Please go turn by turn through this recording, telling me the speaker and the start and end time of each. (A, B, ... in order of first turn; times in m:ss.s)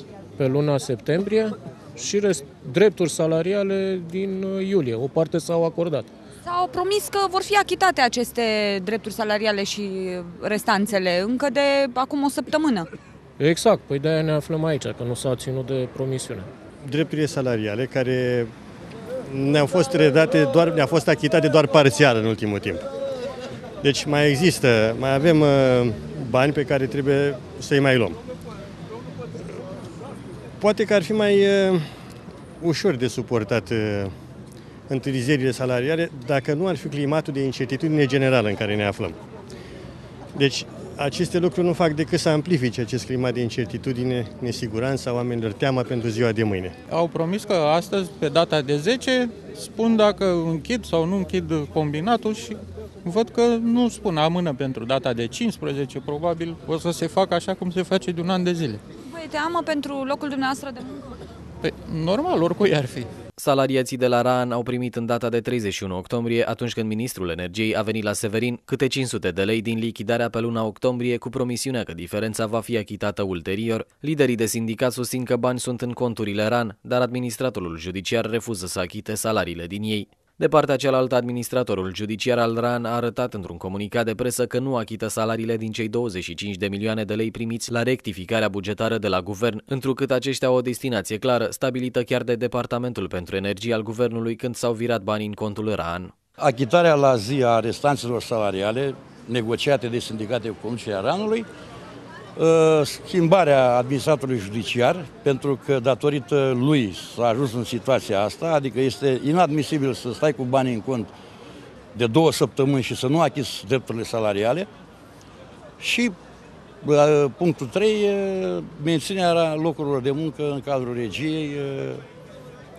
0:00.4-0:06.1 A
0:06.4-0:12.9 B
0:13.4-0:16.5 A
0:16.8-0:18.5 C
0:19.3-0:22.8 C
0:23.8-0:28.2 C
0:30.6-0:31.8 C
0:32.6-0:34.1 C
0:34.9-0:39.2 C
0:40.3-0:46.7 C
0:46.9-0:58.8 D
0:59.1-1:01.2 B
1:01.6-1:03.1 D
1:03.4-1:36.1 E
1:36.4-1:41.5 F
1:42.4-1:51.1 F
1:51.9-1:54.7 F
1:55.8-1:56.1 F
1:56.8-2:02.0 F